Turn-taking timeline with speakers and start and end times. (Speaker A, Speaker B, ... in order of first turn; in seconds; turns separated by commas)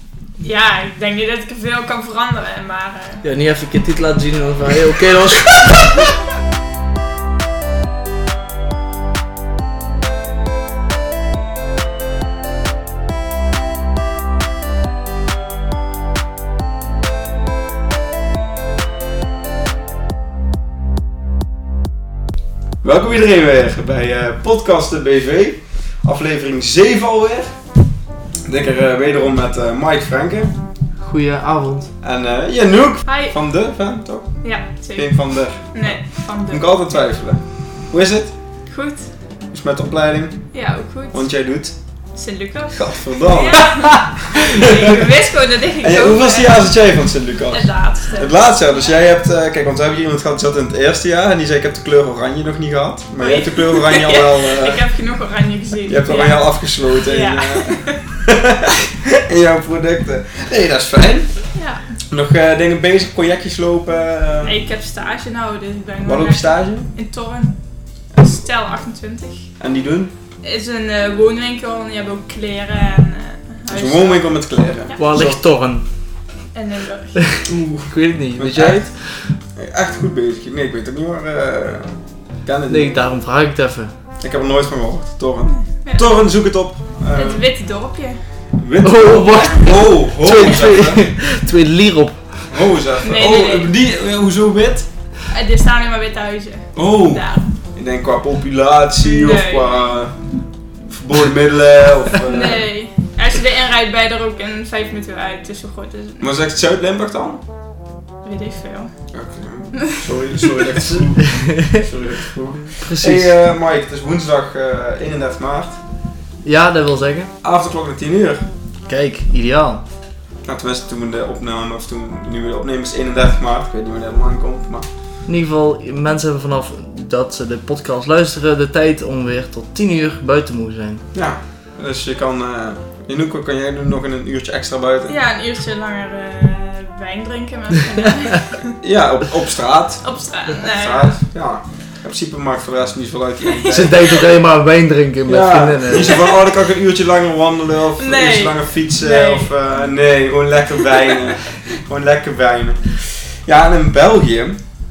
Speaker A: 0.4-3.2, Speaker B: 3.2-6.0, Speaker C: 22.8-27.5, Speaker C: 28.4-30.5, Speaker B: 31.0-31.9, Speaker C: 32.0-34.3, Speaker A: 33.1-33.3, Speaker A: 34.4-35.1, Speaker C: 35.0-36.0, Speaker A: 35.7-36.6, Speaker C: 36.5-38.3, Speaker A: 38.7-39.0, Speaker C: 39.5-40.4, Speaker A: 40.5-41.2, Speaker C: 41.1-41.8, Speaker A: 42.1-46.7, Speaker C: 42.7-45.1, Speaker C: 45.8-54.9, Speaker A: 47.5-48.9, Speaker A: 53.2-58.0, Speaker C: 55.8-61.3, Speaker A: 61.5-61.8, Speaker C: 62.1-64.5, Speaker A: 64.4-67.5, Speaker C: 66.0-66.9, Speaker A: 68.2-69.5, Speaker C: 69.6-70.1, Speaker A: 70.4-74.3, Speaker C: 73.7-75.4, Speaker B: 75.0-75.8, Speaker A: 76.5-77.2, Speaker B: 77.2-79.3, Speaker C: 77.5-78.8, Speaker C: 79.5-83.0, Speaker B: 82.7-83.9, Speaker C: 84.2-87.4, Speaker A: 85.5-86.2, Speaker A: 87.1-88.2, Speaker C: 88.5-91.1, Speaker B: 88.8-92.5, Speaker C: 92.5-94.9, Speaker A: 93.0-93.7, Speaker A: 95.3-97.5, Speaker C: 96.7-100.1, Speaker A: 99.0-99.9, Speaker C: 100.9-102.7, Speaker A: 102.2-106.3, Speaker C: 106.2-107.4, Speaker A: 108.2-108.9, Speaker C: 109.1-115.8, Speaker B: 111.2-111.8, Speaker B: 112.8-113.3, Speaker B: 116.4-117.3, Speaker C: 117.4-118.5, Speaker B: 118.9-119.8, Speaker C: 120.5-124.8, Speaker B: 125.2-131.0, Speaker C: 131.1-135.2, Speaker A: 135.1-138.7, Speaker C: 138.8-144.3, Speaker A: 140.0-141.2, Speaker B: 143.7-146.2, Speaker C: 145.3-154.6, Speaker A: 148.0-149.9